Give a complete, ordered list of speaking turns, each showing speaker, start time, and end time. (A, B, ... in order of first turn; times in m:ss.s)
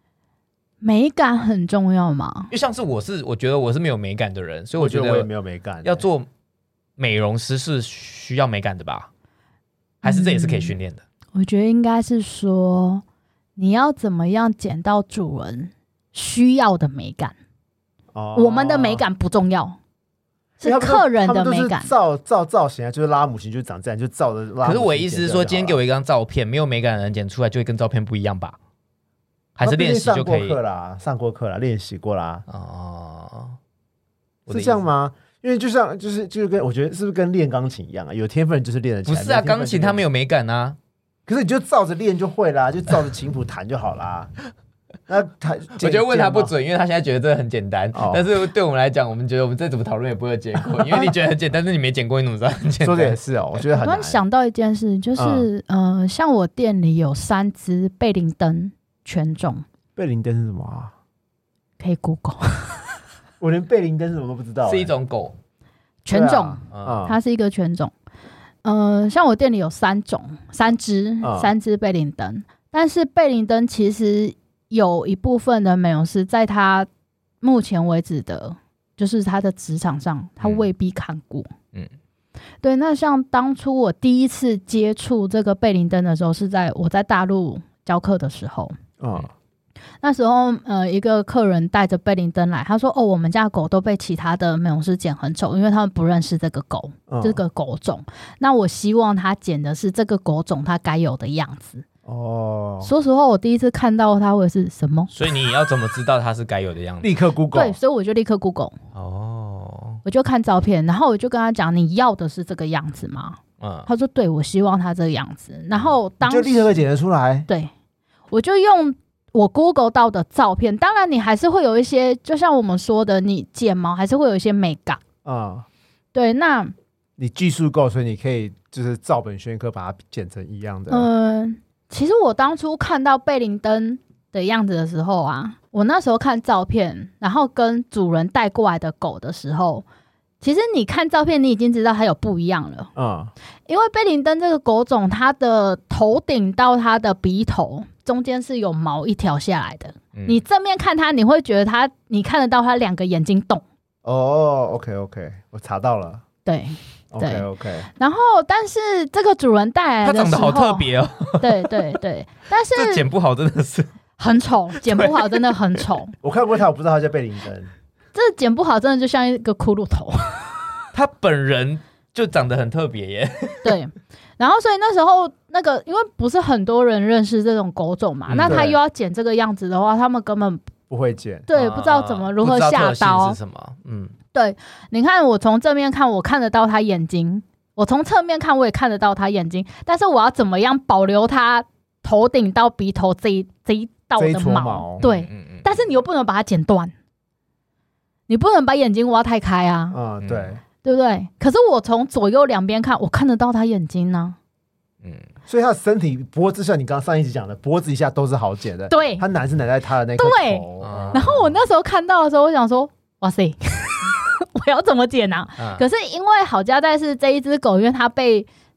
0:00.8-0:02.5 A
0:02.5-0:05.3 B
0:04.8-0:06.1 C
0:05.8-0:06.3 B
0:07.0-0:09.1 B
0:10.0-0:11.0 B
0:10.0-0:10.7 A
0:11.4-0:13.0 A
0:13.6-0:17.4 A
0:18.1-0:19.0 C
0:18.4-0:19.8 A
0:20.6-0:21.9 A
0:20.6-0:25.8 C
0:24.6-0:28.6 B
0:29.6-0:30.6 B
0:29.6-0:32.4 C
0:32.5-0:33.6 B
0:34.5-0:34.8 B
0:34.5-0:40.0 C
0:39.1-0:40.8 B
0:41.3-0:44.3 C
0:45.1-0:46.5 C
0:45.8-0:53.2 B
0:47.9-0:48.3 C
0:52.8-0:54.2 C
0:53.7-0:59.6 A
0:55.2-0:55.5 C
1:00.0-1:00.9 C
1:01.8-1:02.9 A
1:03.4-1:04.9 C
1:04.7-1:05.4 B
1:06.0-1:07.9 A
1:06.1-1:07.2 C
1:06.7-1:07.1 B
1:08.6-1:16.9 A
1:11.2-1:11.5 C
1:17.4-1:21.5 A
1:20.4-1:20.7 B
1:22.6-1:28.8 A
1:29.0-1:29.3 C
1:30.0-1:41.8 A
1:37.1-1:37.4 C
1:42.0-1:42.9 C
1:42.8-1:45.1 A
1:45.1-1:47.1 B
1:47.0-1:47.8 C
1:47.5-1:48.8 A
1:48.9-1:50.0 B
1:50.0-1:56.8 A
1:53.6-1:53.9 B
1:56.2-1:57.5 C
1:58.3-2:05.0 A
2:05.2-2:05.7 C
2:06.1-2:06.7 A
2:07.2-2:11.1 C
2:10.9-2:19.9 A
2:20.4-2:22.9 A
2:23.0-2:23.3 C
2:23.7-2:33.6 A
2:30.1-2:30.4 B
2:34.0-2:36.2 C
2:36.4-2:40.9 A
2:37.1-2:37.9 C
2:40.0-2:42.0 B
2:41.4-2:43.1 A
2:42.8-2:43.9 B
2:44.2-2:46.2 A
2:44.7-2:45.8 B
2:46.2-2:47.7 C
2:48.2-2:50.7 A
2:50.9-2:53.8 B
2:53.6-3:00.7 A
2:58.3-2:58.8 B
2:58.4-2:58.8 C
3:00.9-3:01.5 C
3:01.5-3:03.4 A
3:01.5-3:04.2 B
3:04.3-3:16.9 A
3:14.2-3:15.0 C
3:15.0-3:15.8 B
3:18.3-3:20.0 A
3:19.9-3:20.6 C
3:20.2-3:20.6 B
3:20.8-3:24.4 A
3:25.0-3:25.3 B
3:25.5-3:31.5 C
3:28.9-3:29.2 A
3:30.2-3:38.5 A
3:30.8-3:31.5 B
3:35.6-3:35.8 B